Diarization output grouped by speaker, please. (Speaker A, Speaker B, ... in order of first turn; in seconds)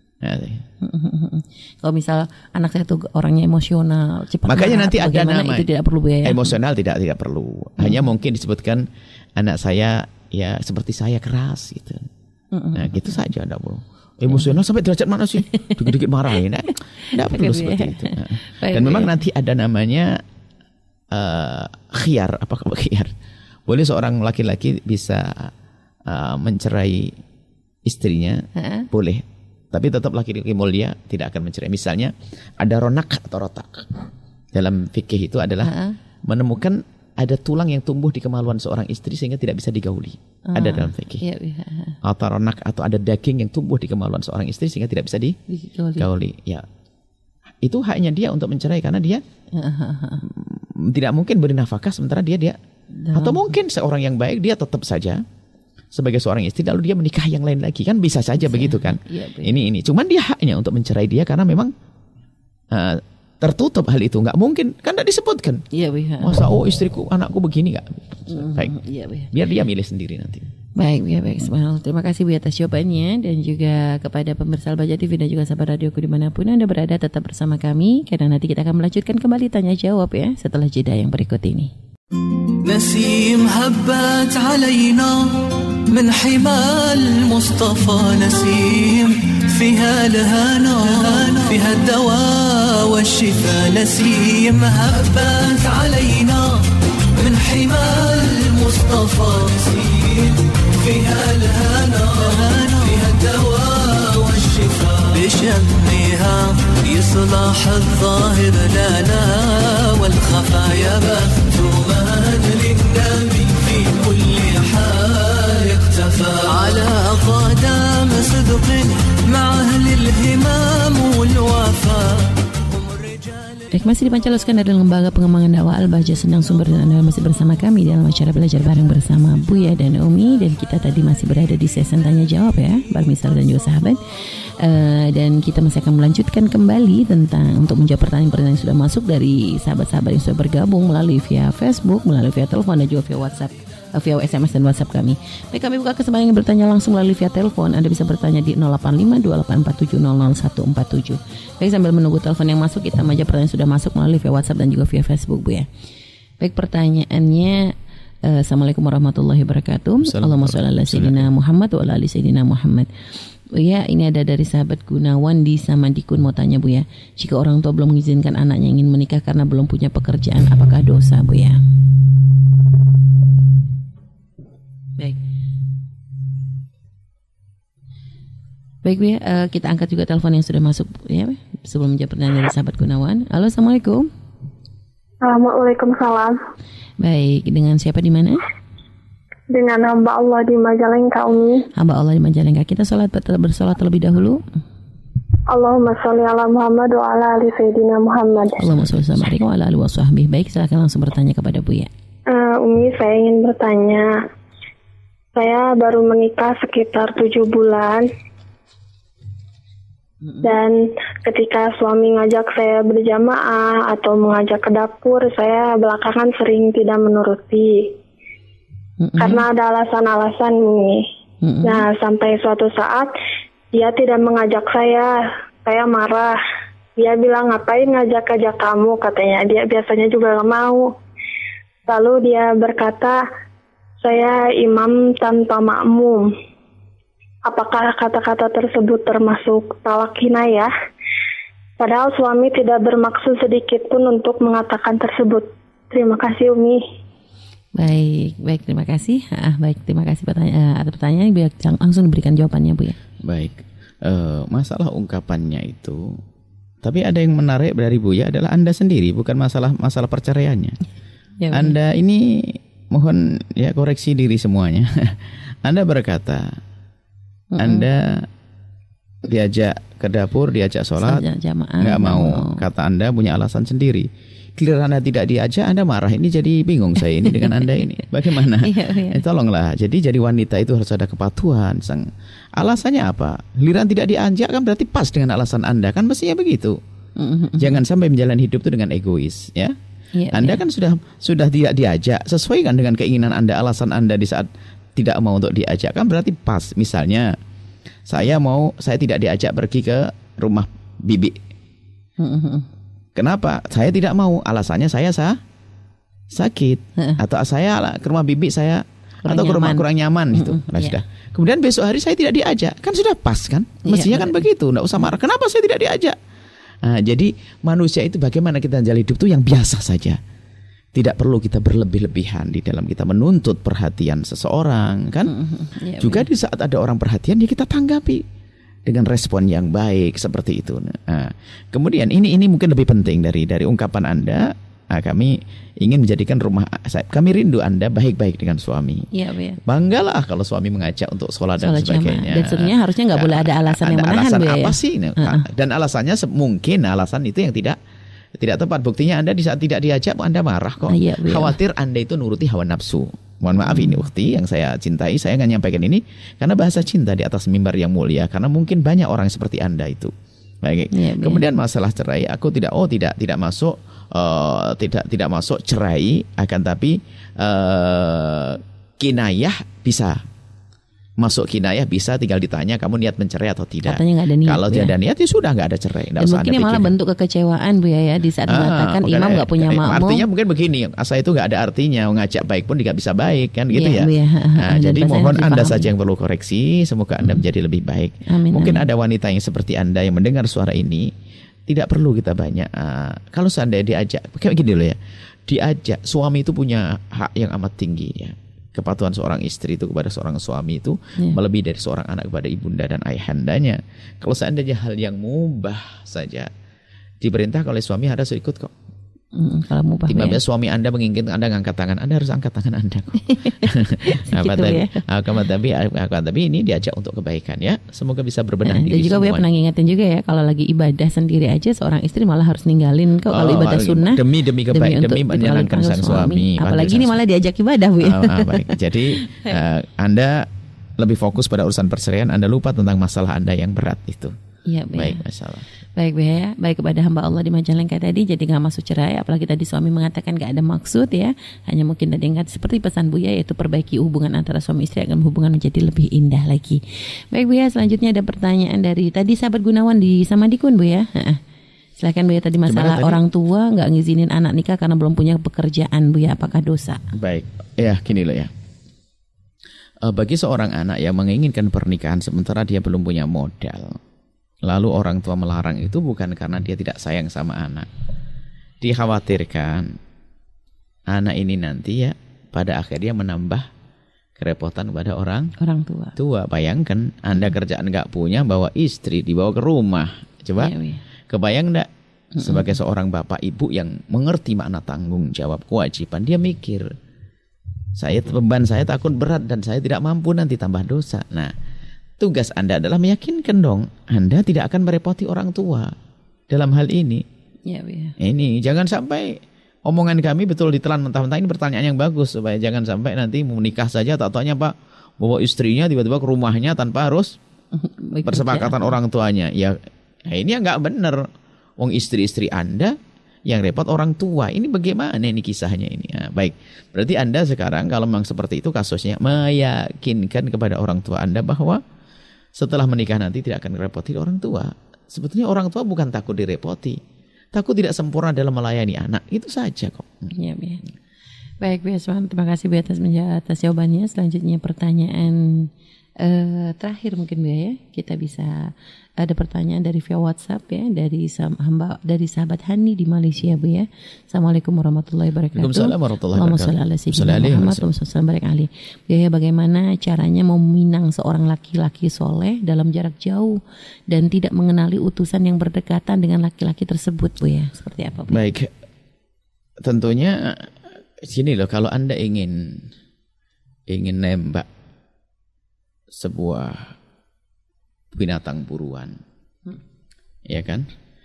Speaker A: 0.2-0.6, 4.5-5.7, 6.2-8.8, 9.4-12.1, 12.7-20.2, 21.1-23.1, 23.7-25.5, 26.1-27.1, 27.9-34.0, 34.5-35.7, 36.3-41.2, 42.0-45.4, 46.0-46.6, 47.6-49.2, 50.3-52.6, 53.1-55.2, 55.9-61.7, 62.7-65.6, 66.2-68.7, 69.3-70.5, 160.0-161.3, 198.7-199.3, 253.2-256.2, 256.8-260.8, 261.5-266.6, 267.6-268.3, 269.2-271.2, 271.8-286.8, 287.6-289.7, 290.3-297.4, 298.1-301.4, 303.1-305.4, 306.3-316.2, 316.8-320.2, 320.9-325.3, 326.0-328.2, 328.9-339.1, 339.6-347.8, 348.4-360.1, 360.6-370.2, 371.2-376.9, 378.5-391.1, 391.7-406.5, 407.2-408.7, 410.1-419.4, 423.3-427.2, 428.0-430.5, 431.0-434.3, 434.9-435.6, 452.6-453.2, 457.1-458.5, 460.0-464.0, 464.6-467.9, 468.8-470.0, 471.1-473.7, 474.4-475.5, 476.1-480.7, 481.3-486.9, 488.0-491.5, 492.2-495.9, 496.5-497.2, 498.2-507.3, 508.2-511.3, 511.8-513.0, 513.5-521.8, 522.5-527.0, 527.5-530.3, 545.5-547.9, 558.3-558.7, 559.8-562.9, 563.9-564.7, 566.1-566.9, 568.1-569.2, 570.5-570.9
Speaker B: 0.8-6.6, 7.8-8.0, 12.5-13.2, 14.3-14.6, 15.5-16.0, 17.2-19.1, 28.6-28.9, 35.6-36.0, 40.5-42.0, 45.5-46.1, 49.5-50.2, 53.0-53.5, 58.4-59.5, 65.7-66.4, 68.3-69.3, 70.8-81.7, 123.7-155.7, 156.4-157.7, 158.2-162.9, 163.5-171.6, 178.8-184.1, 187.0-188.4, 191.8-194.4, 198.6-201.9, 210.2-210.5, 219.0-219.4, 221.4-221.9, 247.7-253.0, 261.4-261.8, 267.5-267.9, 271.0-272.6, 277.3-279.2, 287.2-287.8, 290.1-290.6, 302.2-302.7, 309.2-311.0, 313.9-314.4, 325.2-326.3, 339.1-339.6, 341.6-345.4, 350.9-351.6, 353.6-354.1, 360.9-361.4, 373.9-374.9, 376.2-380.2, 383.7-385.9, 388.3-388.9, 409.3-410.4, 413.4-415.0, 418.6-429.6, 434.7-435.2, 435.9-451.4, 452.0-457.0, 475.6-476.1, 480.6-481.0, 482.4-482.8, 497.7-498.1, 507.7-508.9, 530.3-530.8, 531.6-558.4
Speaker C: 82.6-123.7
Speaker D: 185.2-186.4, 189.5-191.7, 195.5-198.6, 202.3-204.2, 205.3-208.1, 210.4-217.9, 219.2-221.0, 221.6-223.1, 223.7-225.1, 225.6-226.4, 227.0-230.9, 231.9-233.2, 234.0-236.3, 237.4-240.7, 241.8-246.8